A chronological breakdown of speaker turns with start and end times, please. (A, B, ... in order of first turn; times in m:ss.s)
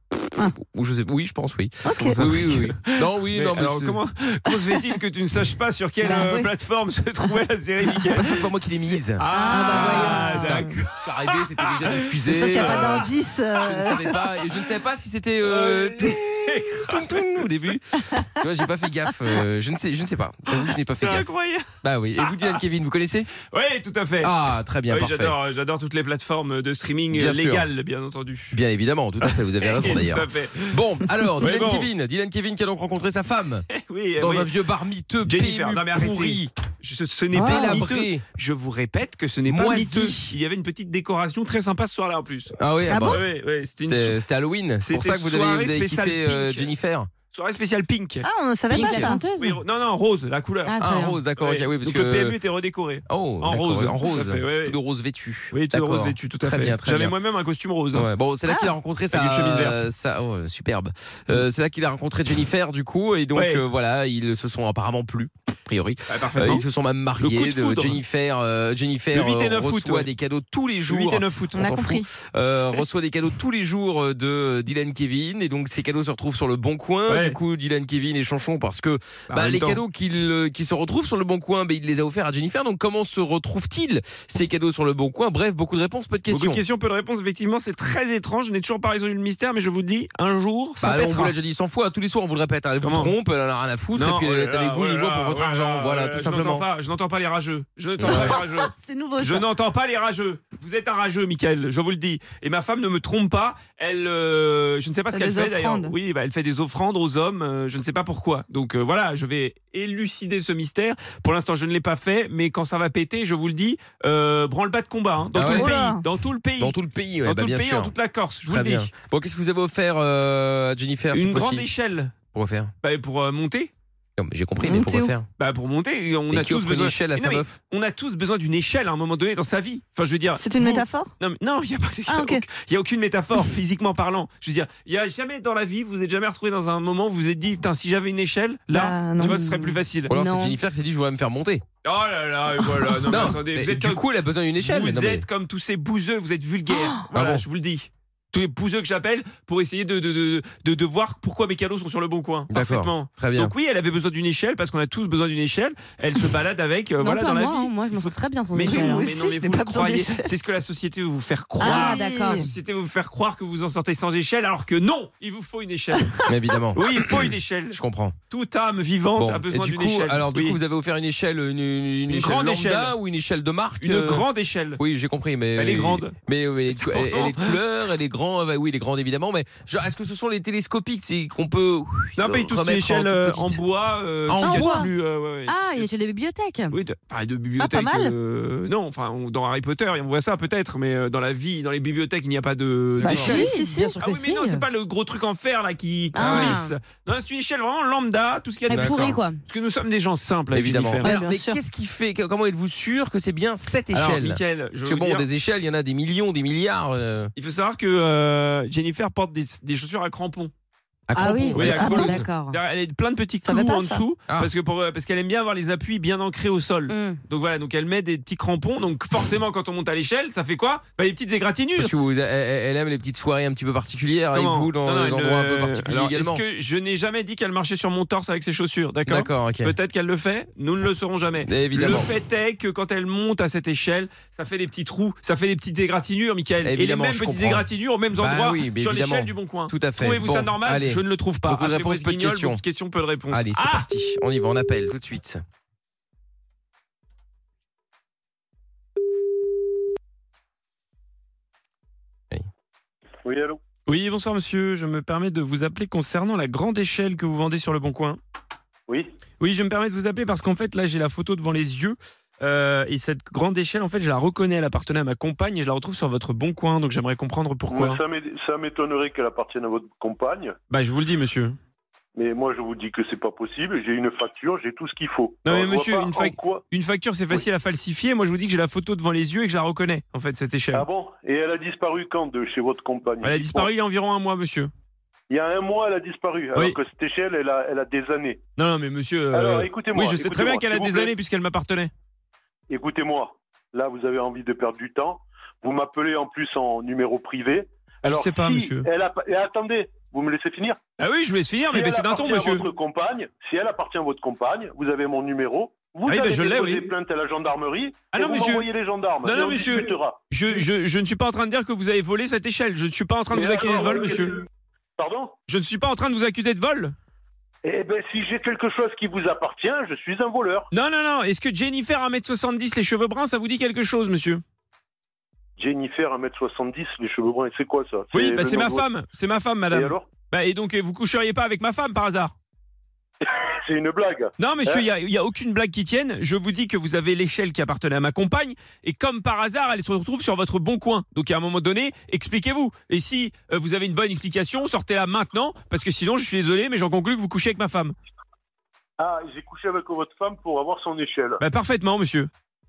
0:00.4-0:04.0 A
0:01.8-0:02.2 B
0:02.0-0:13.1 C
0:06.0-0:06.5 D
0:08.2-0:09.2 A
0:09.3-0:10.7 B
0:09.5-0:10.5 D
0:09.8-0:21.3 A
0:12.2-0:14.1 B
0:15.4-0:17.7 C
0:20.6-0:21.7 C
0:21.8-0:23.3 A
0:22.2-0:22.6 C
0:23.5-0:24.3 C
0:24.2-0:25.4 A
0:24.9-0:28.6 C
0:27.1-0:27.7 A
0:28.5-0:33.7 A
0:29.2-0:30.8 C
0:31.4-0:31.9 C
0:33.7-0:34.5 C
0:34.2-0:36.5 A
0:35.3-0:44.2 C
0:37.4-0:37.8 B
0:37.4-0:38.2 A
0:39.5-0:40.4 A
0:42.6-0:43.2 A
0:42.9-0:43.2 B
0:43.8-0:47.1 A
0:44.8-0:46.7 C
0:47.3-0:48.2 C
0:48.2-0:49.2 B
0:48.7-0:49.6 D
0:48.9-0:50.8 C
0:50.7-0:51.2 D
0:50.8-0:52.4 A
0:51.4-0:54.8 C
0:53.1-0:57.1 A
0:55.5-0:58.1 C
0:57.9-1:26.6 A
0:58.5-0:58.7 B
0:59.1-0:59.8 C
1:03.4-1:03.6 C
1:06.1-1:06.6 C
1:07.2-1:08.0 C
1:09.1-1:10.1 C
1:10.9-1:11.7 C
1:11.6-1:12.1 B
1:17.1-1:17.4 C
1:19.3-1:19.8 C
1:26.3-1:31.4 C
1:30.8-1:36.6 A
1:32.8-1:33.1 C
1:34.0-1:58.9 C
1:38.0-1:38.4 A
1:38.1-1:39.5 B
1:45.1-1:46.0 B
1:55.4-1:55.7 A
1:55.4-1:56.0 B
1:56.6-1:57.9 A
1:58.5-2:01.7 A
2:01.1-2:02.2 C
2:02.3-2:02.7 A
2:02.8-2:03.7 C
2:04.2-2:05.3 A
2:04.6-2:05.1 B
2:05.4-2:20.1 C
2:06.3-2:07.6 A
2:10.4-2:11.1 B
2:12.1-2:12.4 B
2:18.7-2:19.4 B
2:19.2-2:20.6 D
2:20.1-2:21.6 A
2:21.8-2:24.0 C
2:23.0-2:25.2 A
2:24.6-2:46.2 C
2:26.7-2:27.0 B
2:27.1-2:27.4 A
2:32.5-2:33.5 A
2:37.0-2:39.1 D
2:38.6-2:40.3 B
2:41.6-2:42.5 B
2:41.6-2:42.5 D
2:46.3-2:48.2 A
2:46.8-2:47.8 C
2:48.3-2:50.6 C
2:49.2-2:54.2 A
2:52.1-2:53.0 C
2:53.8-2:54.8 C
2:54.8-3:03.6 A
2:55.6-2:56.2 C
2:56.7-2:57.6 C
3:02.2-3:05.9 C
3:04.3-3:04.9 A
3:04.4-3:04.9 B
3:05.5-3:06.7 D
3:06.7-3:13.4 C
3:07.6-3:08.1 B
3:13.0-3:13.9 B
3:13.0-3:13.4 A
3:13.1-3:14.6 D
3:14.0-3:21.1 C
3:16.2-3:16.7 D
3:16.2-3:16.6 A
3:18.7-3:19.4 D
3:18.7-3:19.2 A
3:20.5-3:27.3 A
3:21.0-3:21.6 B
3:23.9-3:25.3 C
3:27.4-3:30.5 C
3:31.1-3:32.2 A
3:31.2-3:32.6 D
3:31.5-3:41.9 C
3:31.6-3:32.1 B
3:33.4-3:34.0 B
3:36.9-3:37.2 D
3:41.8-3:46.4 A
3:44.3-4:03.9 C
3:49.1-3:49.8 A
3:51.4-3:52.1 A
3:56.6-4:02.6 A
4:03.3-4:05.4 A
4:13.2-4:13.6 E
4:13.9-4:18.2 C
4:19.4-4:28.0 C
4:27.7-4:30.6 E
4:30.7-4:31.6 C
4:32.2-4:36.6 E
4:35.4-4:40.9 C
4:40.7-4:43.7 E
4:43.2-4:44.7 C
4:45.3-4:48.4 E
4:48.6-4:51.9 C
4:49.3-4:51.1 E
4:52.7-5:00.8 E
4:58.0-4:58.9 C
5:01.0-5:02.7 C
5:01.7-5:10.3 E
5:06.1-5:06.9 C
5:08.1-5:08.7 C
5:09.2-5:14.4 C
5:13.3-5:14.4 E
5:15.0-5:15.4 E
5:15.5-5:17.0 C
5:17.6-5:20.7 E
5:20.7-5:24.4 C
5:25.6-5:28.9 E
5:28.1-5:32.3 C
5:29.7-5:30.1 E
5:33.2-5:34.9 E
5:34.4-5:48.0 C
5:49.0-5:51.4 E
5:51.4-5:52.3 C